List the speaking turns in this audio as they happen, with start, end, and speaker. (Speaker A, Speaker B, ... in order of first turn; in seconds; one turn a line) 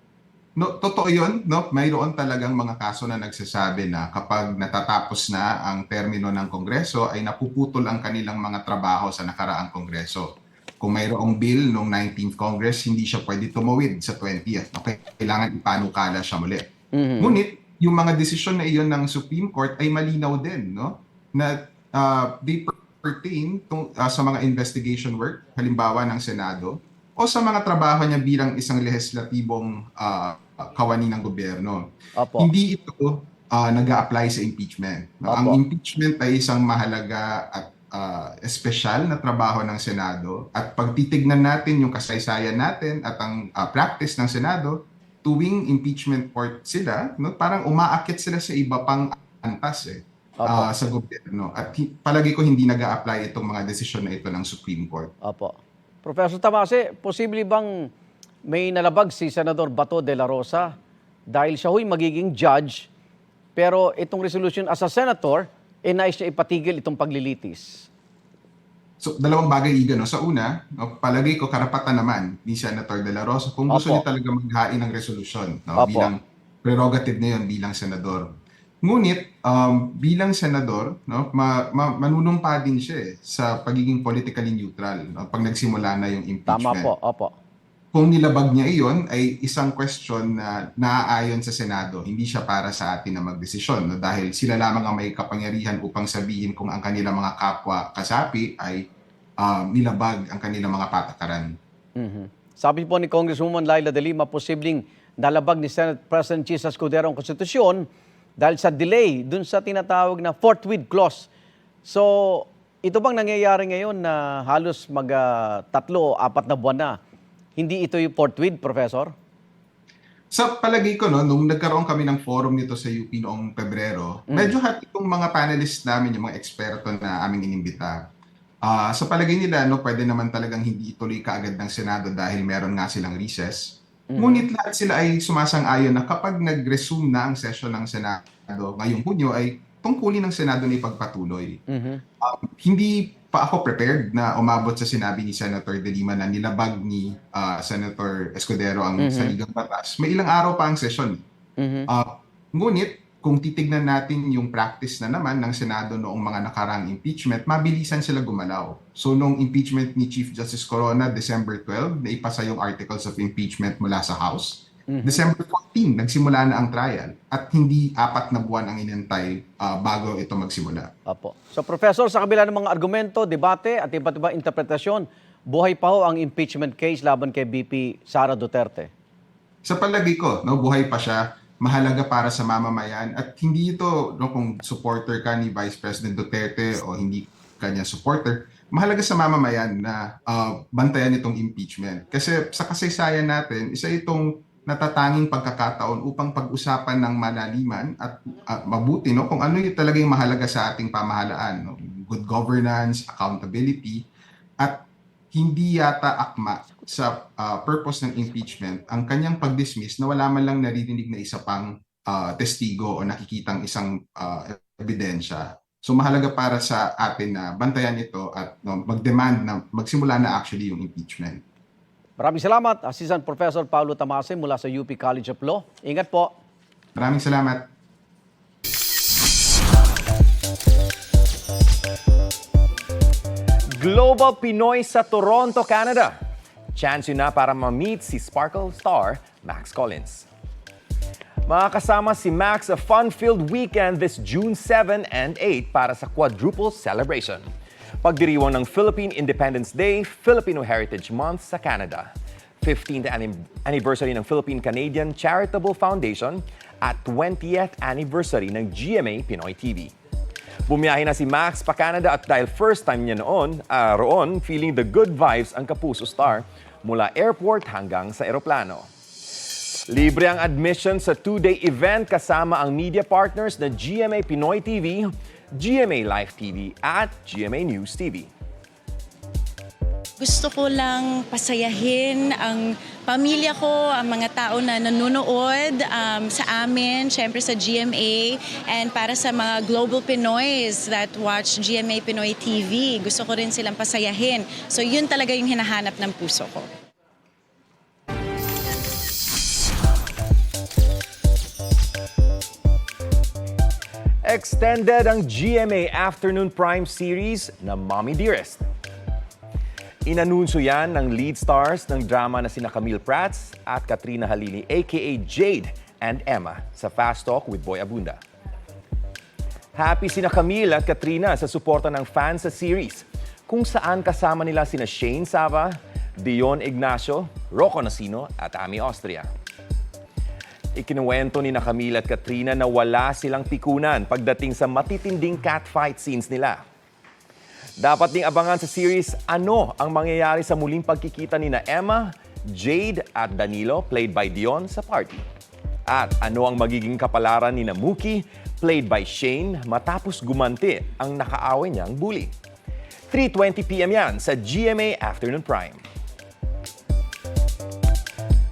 Speaker A: 0.6-16.7
Speaker B: 16.9-17.4
Speaker A: 17.2-55.1
Speaker B: 32.2-32.5
Speaker B: 35.3-35.6
Speaker B: 50.4-50.7
Speaker B: 55.2-57.9
Speaker B: 58.5-60.7
Speaker B: 61.3-62.9
Speaker B: 63.5-67.9
Speaker A: 69.0-86.9
Speaker B: 73.7-74.0
Speaker B: 75.8-76.1
Speaker B: 86.5-87.3
Speaker A: 87.9-98.8
Speaker A: 99.4-101.5
Speaker B: 102.0-107.9
Speaker B: 108.4-111.3
Speaker B: 111.8-117.0
Speaker B: 117.6-119.1
Speaker A: 120.3-128.1
Speaker B: 124.3-124.5
Speaker A: 128.6-141.6
Speaker B: 134.1-134.4
Speaker B: 141.7-142.0
Speaker A: 142.2-151.2
Speaker B: 149.0-149.3
Speaker B: 151.6-151.9
Speaker A: 151.9-170.9
Speaker B: 164.9-165.2
Speaker B: 171.1-178.9
Speaker A: 179.6-204.0
Speaker A: 204.6-221.4
Speaker B: 222.2-226.3
Speaker A: 226.9-227.7
Speaker C: 233.8-236.2
Speaker C: 236.7-240.2
Speaker C: 241.5-247.5
Speaker C: 248.0-259.9
Speaker C: 260.7-268.9
Speaker C: 269.9-278.3
Speaker D: 280.2-287.8
Speaker D: 288.7-296.6
Speaker C: 304.2-308.6
Speaker C: 310.0-318.2
Speaker C: 319.7-329.3
Speaker C: 330.7-336.6
Speaker C: 337.8-345.2
Speaker C: 345.9-352.3
Speaker C: 353.1-355.8